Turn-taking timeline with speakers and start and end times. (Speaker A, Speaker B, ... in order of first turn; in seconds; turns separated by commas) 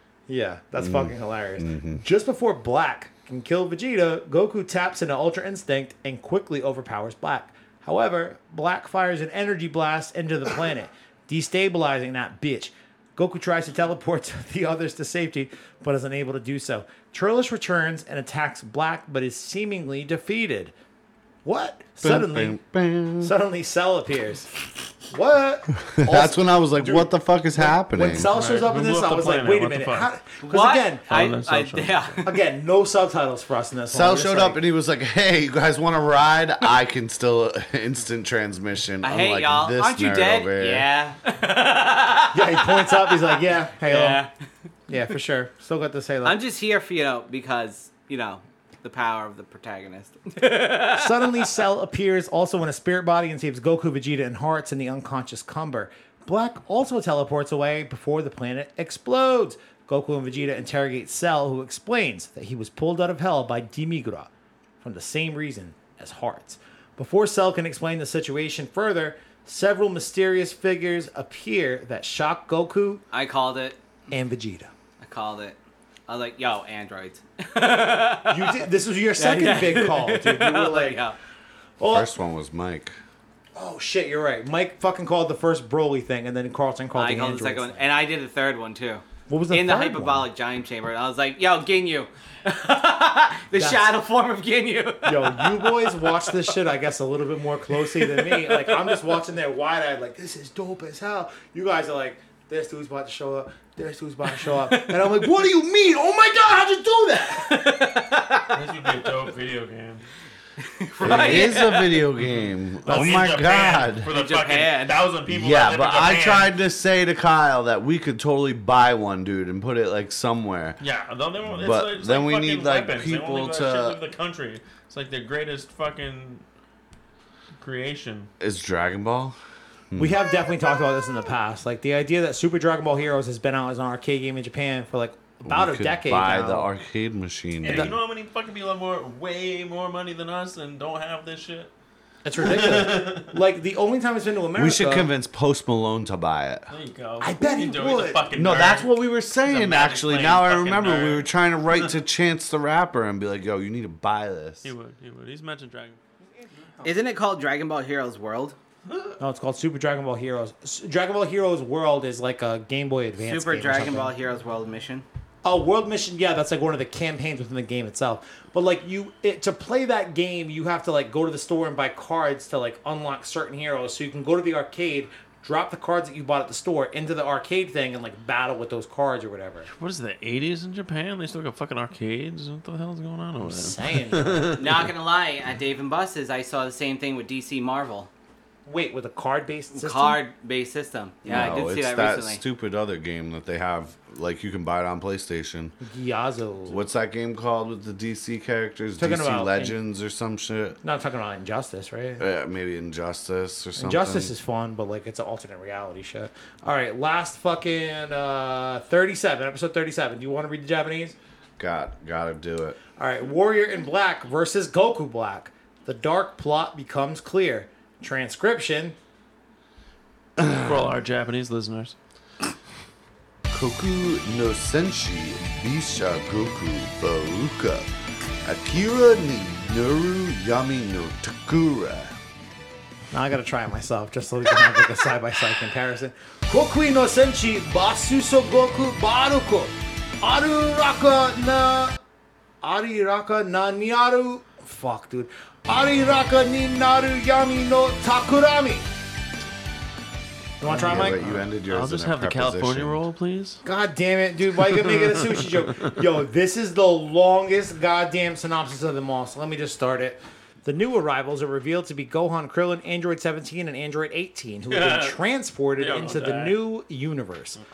Speaker A: 0.3-20.7, Speaker B: 0.8-2.0, Speaker A: 21.4-22.6, Speaker B: 22.0-23.3, Speaker A: 23.2-24.5, Speaker A: 25.1-31.1, Speaker B: 25.9-28.3, Speaker C: 28.2-30.1, Speaker D: 30.4-32.4, Speaker C: 31.1-32.2, Speaker A: 32.2-34.6, Speaker B: 33.9-40.9, Speaker D: 39.0-43.3, Speaker A: 42.3-44.2, Speaker D: 43.8-44.3, Speaker A: 44.9-46.4, Speaker D: 46.2-51.5, Speaker A: 50.9-64.3, Speaker A: 64.8-73.0, Speaker D: 73.1-73.8, Speaker A: 74.1-74.7, Speaker D: 75.0-75.6, Speaker D: 76.1-78.7, Speaker A: 78.3-81.0, Speaker D: 79.2-81.2, Speaker A: 81.8-82.1, Speaker B: 81.8-83.0, Speaker A: 83.5-87.8, Speaker D: 86.9-96.3, Speaker A: 89.3-90.3, Speaker A: 93.5-93.9, Speaker A: 95.0-107.5, Speaker D: 97.7-98.9, Speaker D: 104.8-105.1, Speaker D: 107.4-108.5, Speaker C: 108.5-110.0, Speaker D: 110.6-112.0, Speaker B: 111.0-114.1, Speaker C: 112.2-116.5, Speaker A: 112.9-113.2, Speaker D: 114.1-115.0, Speaker B: 115.3-120.8, Speaker C: 120.8-126.4, Speaker B: 121.4-124.0, Speaker C: 127.6-128.3, Speaker B: 128.4-129.4, Speaker A: 130.0-136.7, Speaker B: 135.4-137.9, Speaker C: 137.6-141.7, Speaker A: 142.2-145.1, Speaker C: 142.4-143.3, Speaker B: 144.5-146.7, Speaker C: 146.7-151.9, Speaker A: 147.2-148.2, Speaker B: 148.3-154.7, Speaker C: 154.6-156.0, Speaker D: 156.8-158.6, Speaker A: 159.2-164.1, Speaker D: 163.2-165.1, Speaker A: 165.4-179.7, Speaker C: 179.7-184.9, Speaker A: 183.4-184.6, Speaker D: 184.6-188.1, Speaker A: 188.7-190.2, Speaker D: 189.7-192.4, Speaker B: 191.2-195.8, Speaker A: 195.8-196.8, Speaker B: 196.7-200.8, Speaker A: 199.0-199.7, Speaker A: 200.8-202.2, Speaker B: 202.2-204.3, Speaker A: 203.8-211.2, Speaker B: 211.6-212.8, Speaker A: 213.0-218.9, Speaker B: 220.4-220.9, Speaker C: 220.6-221.9, Speaker B: 223.5-227.9, Speaker B: 228.4-232.2, Speaker A: 233.1-242.0, Speaker A: 242.6-248.9, Speaker A: 250.6-251.2, Speaker B: 250.7-253.0, Speaker C: 250.7-253.6, Speaker A: 253.6-267.6, Speaker C: 264.7-265.2, Speaker C: 265.8-266.6